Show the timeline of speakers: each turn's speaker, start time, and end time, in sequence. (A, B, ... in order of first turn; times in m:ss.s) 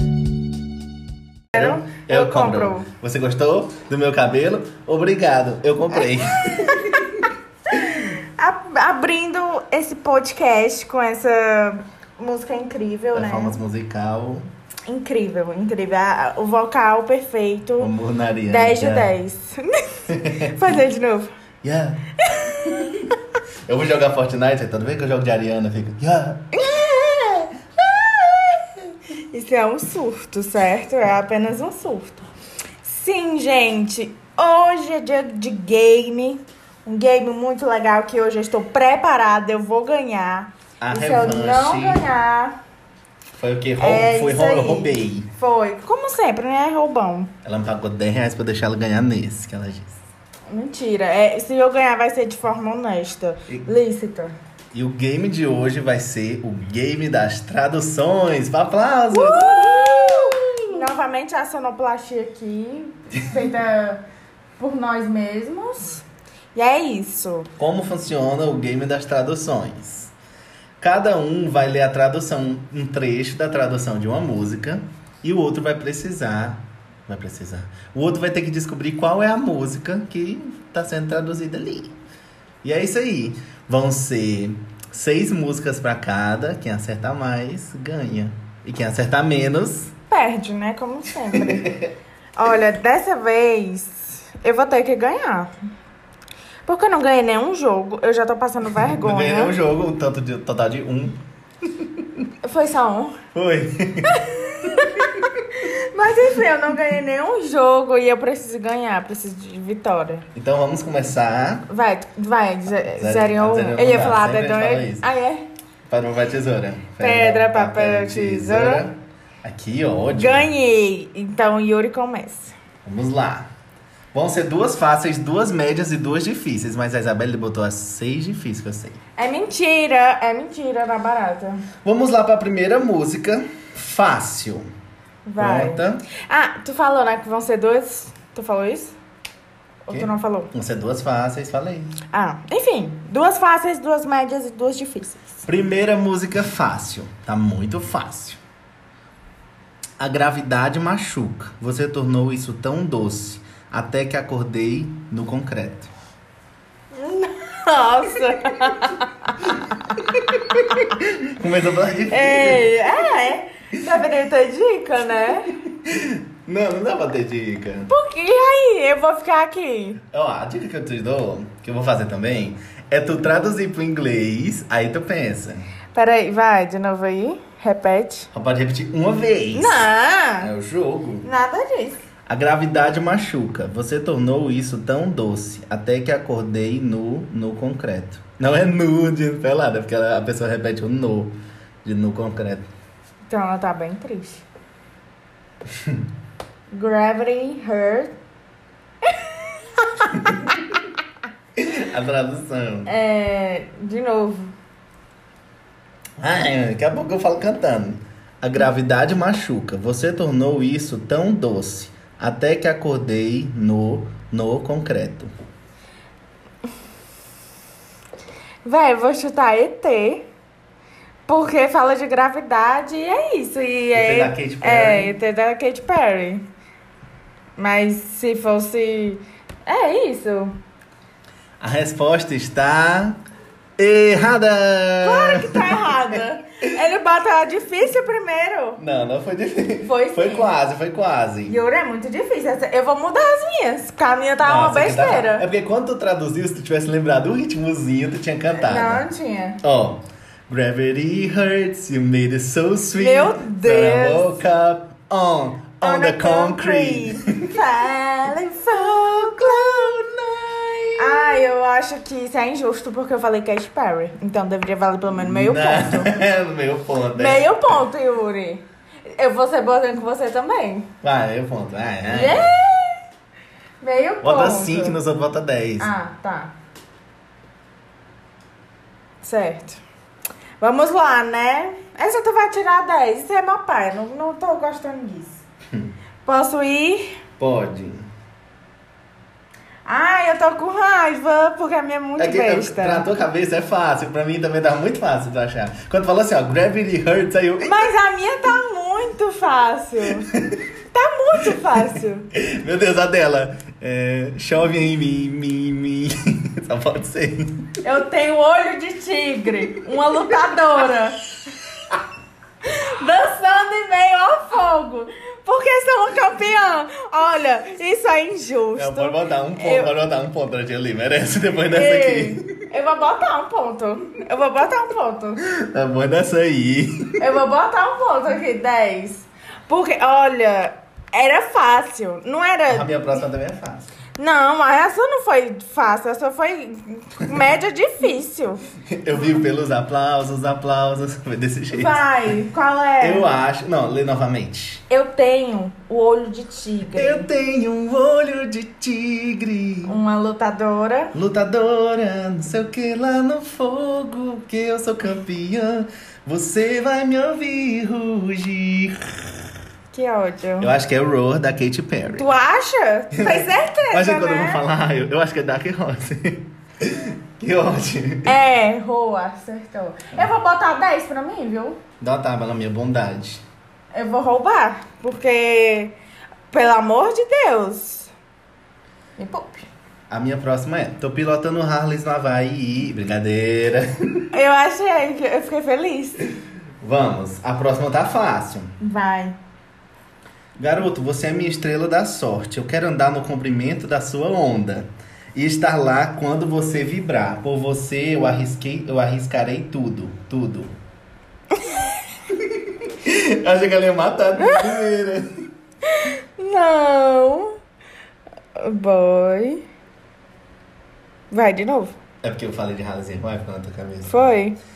0:01.5-0:02.9 A
0:01.5-0:08.1 B
0:07.7-0:13.6 A
0:13.1-0:14.4 B
0:14.9-0:17.9 A
0:17.8-0:19.1 B
0:18.5-0:21.3 A
0:20.1-0:20.8 B
0:21.6-0:23.1 B
0:22.2-0:23.1 A
0:23.6-0:26.7 B
0:26.5-0:32.3 A
0:32.8-0:42.6 A
0:40.8-0:42.0 B
0:43.3-0:45.3 B
0:43.8-0:47.3 A
0:47.4-0:50.0 B
0:50.5-0:54.4 A
0:54.7-1:00.6 B
0:59.1-1:04.0 A
1:04.6-1:07.5 A
1:07.6-1:10.1 B
1:10.8-1:22.0 B
1:22.6-1:29.9 B
1:30.1-1:31.7 A
1:31.2-1:31.9 B
1:32.4-1:35.5 A
1:36.6-1:39.5 A
1:38.8-1:42.2 B
1:42.4-1:43.2 A
1:43.3-1:45.4 B
1:44.1-1:50.2 A
1:50.3-1:51.6 B
1:51.7-1:55.5 A
1:52.8-1:55.0 B
1:55.9-2:00.5 B
1:57.0-1:58.8 A
2:00.1-2:02.5 A
2:02.8-2:03.5 B
2:04.1-2:09.0 B
2:09.2-2:11.6 A
2:11.8-2:14.6 B
2:15.2-2:18.9 A
2:15.4-2:16.0 B
2:19.8-2:20.5 A
2:19.9-2:21.9 B
2:22.1-2:25.4 A
2:25.4-2:28.4 B
2:30.0-2:35.9 B
2:36.9-2:40.8 A
2:39.9-2:42.7 B
2:42.1-2:45.6 A
2:45.5-2:47.9 B
2:47.9-2:50.0 A
2:50.0-2:55.7 B
2:55.9-2:58.3 A
2:58.3-2:59.8 B
2:59.5-3:00.5 A
3:00.4-3:01.3 B
3:01.2-3:02.0 A
3:02.3-3:11.3 B
3:11.8-3:12.7 B
3:13.3-3:14.4 A
3:15.7-3:16.1 B
3:16.7-3:18.1 A
3:19.0-3:20.4 A
3:20.1-3:20.7 B
3:21.6-3:22.9 B
3:22.8-3:24.5 A
3:26.2-3:35.3 B
3:38.6-3:40.2 A
3:41.3-3:46.4 A
3:43.9-3:45.1 B
3:47.6-3:50.5 A
3:51.6-3:53.2 B
3:53.8-3:56.2 B
3:55.0-3:58.8 A
3:58.8-4:01.6 B
3:59.8-4:00.5 A
4:01.5-4:05.5 A
4:04.4-4:09.0 B
4:08.6-4:09.6 A
4:09.6-4:17.6 B
4:13.0-4:14.4 A
4:15.8-4:19.9 A
4:18.7-4:21.5 B
4:21.0-4:26.2 A
4:25.1-4:27.5 B
4:27.1-4:30.9 A
4:31.0-4:32.5 B
4:32.1-4:33.0 A
4:33.8-4:35.0 A
4:34.2-4:35.9 B
4:35.8-4:36.5 A
4:39.2-4:39.8 A
4:40.6-4:45.4 A
4:46.2-4:47.1 A
4:47.4-4:48.1 B
4:49.8-4:53.0 A
4:52.2-4:57.9 B
4:57.6-5:00.3 A
5:00.3-5:00.6 B
5:00.9-5:02.3 A
5:02.3-5:07.7 B
5:07.8-5:11.2 A
5:12.6-5:19.9 A
5:18.8-5:22.5 B
5:21.7-5:25.4 A
5:25.4-5:27.2 B
5:27.2-5:33.2 A
5:32.7-5:33.9 B
5:34.2-5:38.6 A
5:38.8-5:42.0 B
5:41.7-5:43.3 A
5:43.0-5:44.8 B
5:44.9-5:47.3 A
5:46.9-5:50.0 B
5:49.8-5:51.1 A
5:51.1-5:59.4 B
5:59.9-6:00.7 A
6:00.6-6:02.3 B
6:02.2-6:04.6 A
6:03.1-6:08.3 B
6:08.2-6:11.8 A
6:12.0-6:13.4 B
6:13.9-6:16.0 A
6:16.5-6:18.1 A
6:19.2-6:19.6 A
6:20.1-6:24.2 B
6:24.3-6:26.3 A
6:26.8-6:28.8 B
6:28.8-6:29.4 A
6:30.6-6:40.7 B
6:42.3-6:45.3 B
6:44.4-6:44.8 A
6:45.8-6:47.6 A
6:48.6-6:49.6 A
6:51.3-6:52.0 A
6:52.2-6:54.4 B
6:54.1-6:54.6 A